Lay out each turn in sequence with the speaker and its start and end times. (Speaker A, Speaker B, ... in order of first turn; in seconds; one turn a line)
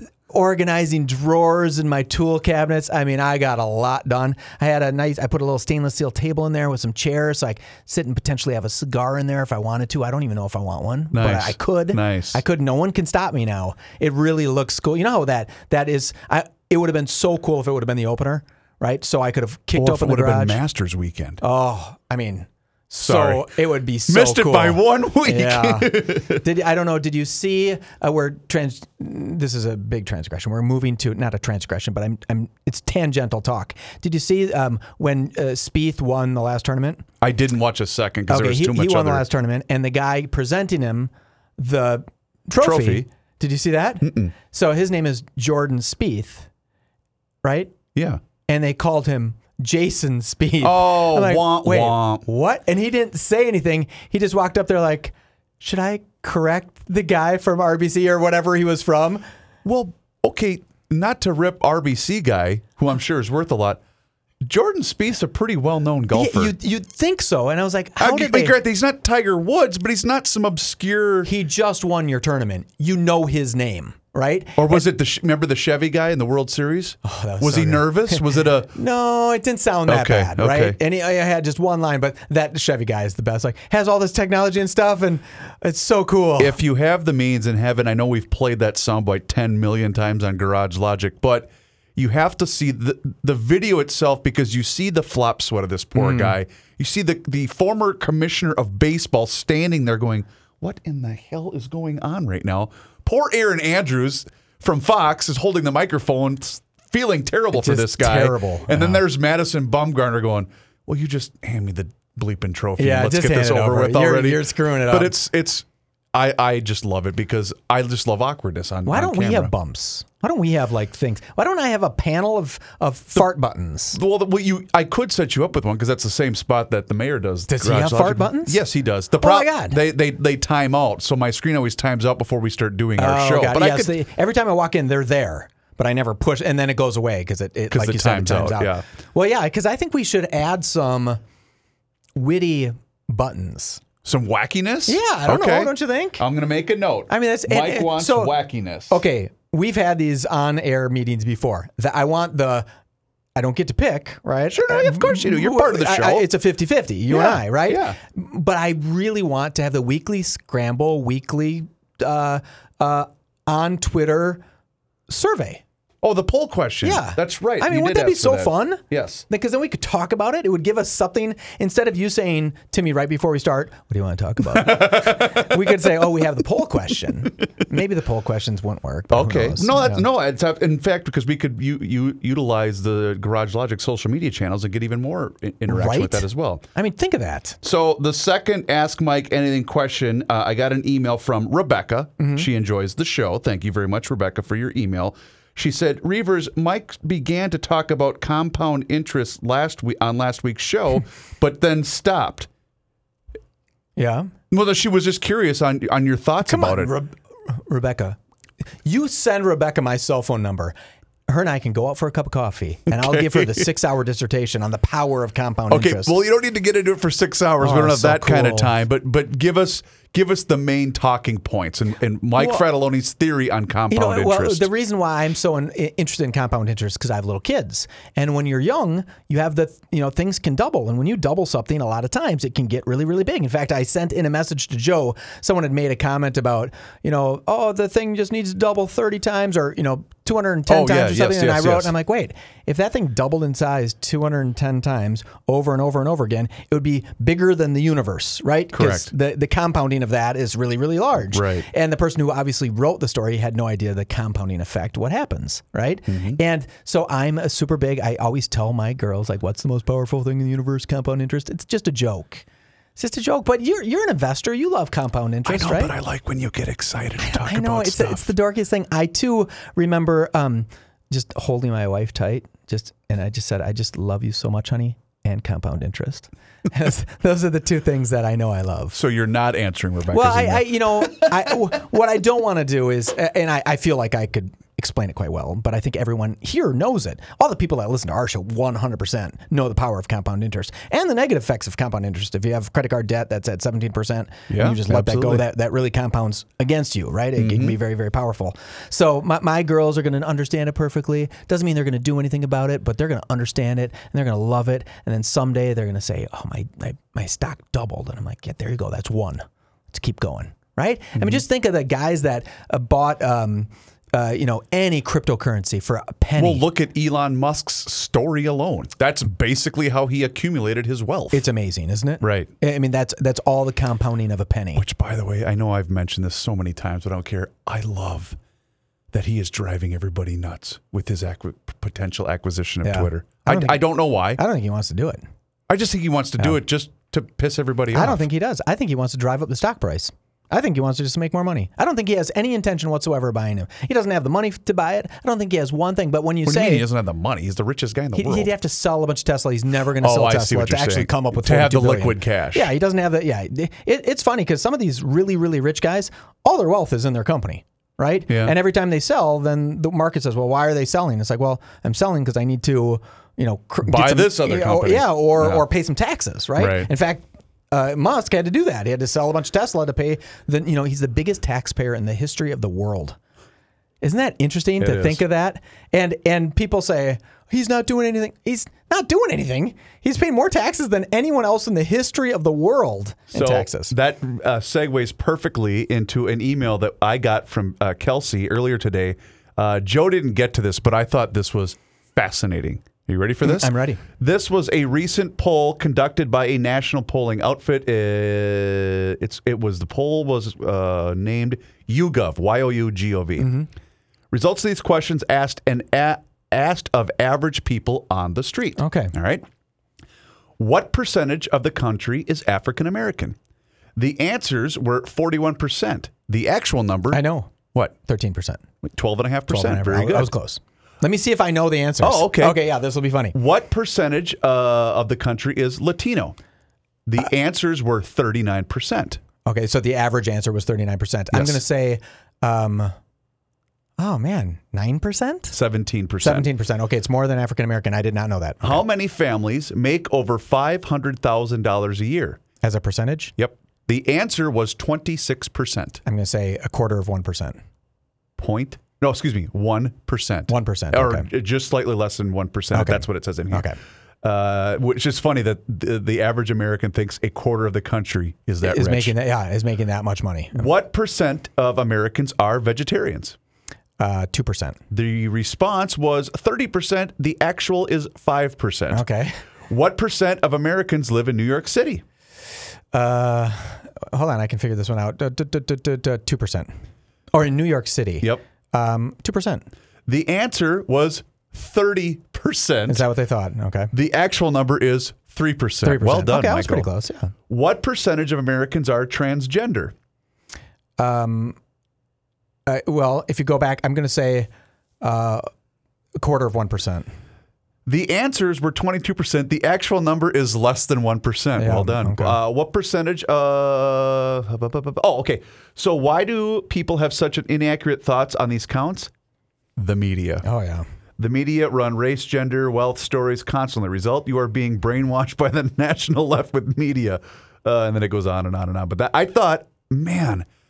Speaker A: 0.3-20.6
Speaker B: 11.1-12.4
Speaker B: 19.7-21.4
Speaker A: 21.4-37.0
Speaker B: 23.0-26.4
Speaker B: 37.2-39.2
Speaker A: 38.3-46.5
Speaker B: 42.6-43.0
Speaker B: 44.0-44.3
Speaker A: 47.4-47.7
Speaker B: 47.9-48.2
Speaker A: 48.5-59.2
Speaker B: 50.6-52.2
Speaker B: 59.6-63.8
Speaker B: 64.4-66.5
Speaker A: 66.1-68.5
Speaker B: 68.0-71.3
Speaker A: 71.2-74.8
Speaker B: 74.6-78.7
Speaker A: 77.0-86.6
Speaker B: 79.9-80.8
Speaker B: 86.4-119.5
Speaker A: 96.0-96.3
Speaker A: 107.5-109.0
Speaker A: 112.8-115.1
Speaker A: 118.8-124.0
Speaker B: 123.9-133.9
Speaker A: 127.5-128.6
Speaker A: 129.2-129.8
Speaker A: 133.0-141.2
Speaker B: 137.7-138.8
Speaker A: 142.1-143.8
Speaker B: 144.0-149.0
Speaker A: 144.9-146.2
Speaker A: 147.1-148.3
Speaker A: 148.9-152.7
Speaker A: 153.3-164.4
Speaker B: 154.5-156.3
Speaker B: 157.1-158.0
Speaker A: 165.1-165.6
Speaker B: 166.0-169.2
Speaker A: 166.8-180.1
Speaker B: 174.5-176.0
Speaker B: 179.1-186.6
Speaker A: 185.7-187.6
Speaker B: 187.6-202.5
Speaker A: 192.2-192.5
Speaker A: 204.0-204.3
Speaker B: 204.5-206.9
Speaker A: 206.4-208.2
Speaker A: 208.8-210.7
Speaker A: 211.3-216.2
Speaker B: 212.9-213.7
Speaker B: 215.7-224.7
Speaker A: 217.6-218.7
Speaker A: 222.4-222.6
Speaker A: 223.9-262.4
Speaker B: 240.7-241.9
Speaker B: 248.7-249.1
Speaker B: 251.3-251.7
Speaker B: 256.1-256.4
Speaker A: 263.0-265.9
Speaker B: 265.4-268.3
Speaker A: 267.2-278.9
Speaker B: 278.9-281.6
Speaker A: 280.1-316.6
Speaker B: 294.5-295.4
Speaker B: 297.4-297.8
Speaker B: 316.4-321.4
Speaker A: 321.3-324.8
Speaker B: 322.2-322.5
Speaker B: 324.7-328.4
Speaker B: 329.1-334.4
Speaker A: 332.8-335.2
Speaker B: 335.7-338.2
Speaker A: 337.9-346.8
Speaker B: 346.4-348.5
Speaker A: 348.1-373.2
Speaker B: 350.0-352.7
Speaker B: 358.3-358.5
Speaker B: 363.8-365.6
Speaker B: 366.6-366.9
Speaker A: 374.0-383.9
Speaker B: 374.8-375.2
Speaker B: 383.3-403.5
Speaker A: 393.4-394.0
Speaker A: 403.4-403.7
Speaker B: 404.3-409.4
Speaker A: 408.8-409.1
Speaker B: 410.6-413.4
Speaker B: 413.9-417.9
Speaker A: 417.1-417.5
Speaker A: 418.0-418.6
Speaker B: 418.8-420.3
Speaker A: 419.5-423.3
Speaker B: 422.0-422.6
Speaker B: 423.3-426.4
Speaker B: 427.1-429.2
Speaker A: 429.4-432.9
Speaker B: 431.3-431.6
Speaker A: 434.0-435.6
Speaker B: 435.5-436.5
Speaker A: 436.2-438.8
Speaker B: 438.6-442.4
Speaker A: 442.6-443.3
Speaker B: 443.4-446.0
Speaker A: 446.0-447.6
Speaker B: 448.4-453.7
Speaker A: 450.5-451.3
Speaker A: 452.7-453.8
Speaker B: 454.2-459.1
Speaker A: 458.6-460.7
Speaker B: 460.5-463.4
Speaker A: 464.0-464.8
Speaker B: 464.9-469.0
Speaker A: 468.9-469.4
Speaker B: 469.7-472.0
Speaker A: 472.9-476.7
Speaker A: 477.3-479.6
Speaker B: 480.1-483.0
Speaker A: 482.9-483.9
Speaker B: 483.9-486.9
Speaker A: 485.8-487.3
Speaker B: 487.5-489.9
Speaker A: 491.0-491.6
Speaker A: 492.6-494.5
Speaker A: 495.0-495.5
Speaker A: 496.2-497.1
Speaker B: 497.9-509.1
Speaker A: 501.6-502.4
Speaker B: 509.8-510.4
Speaker A: 510.4-510.9
Speaker B: 511.2-520.5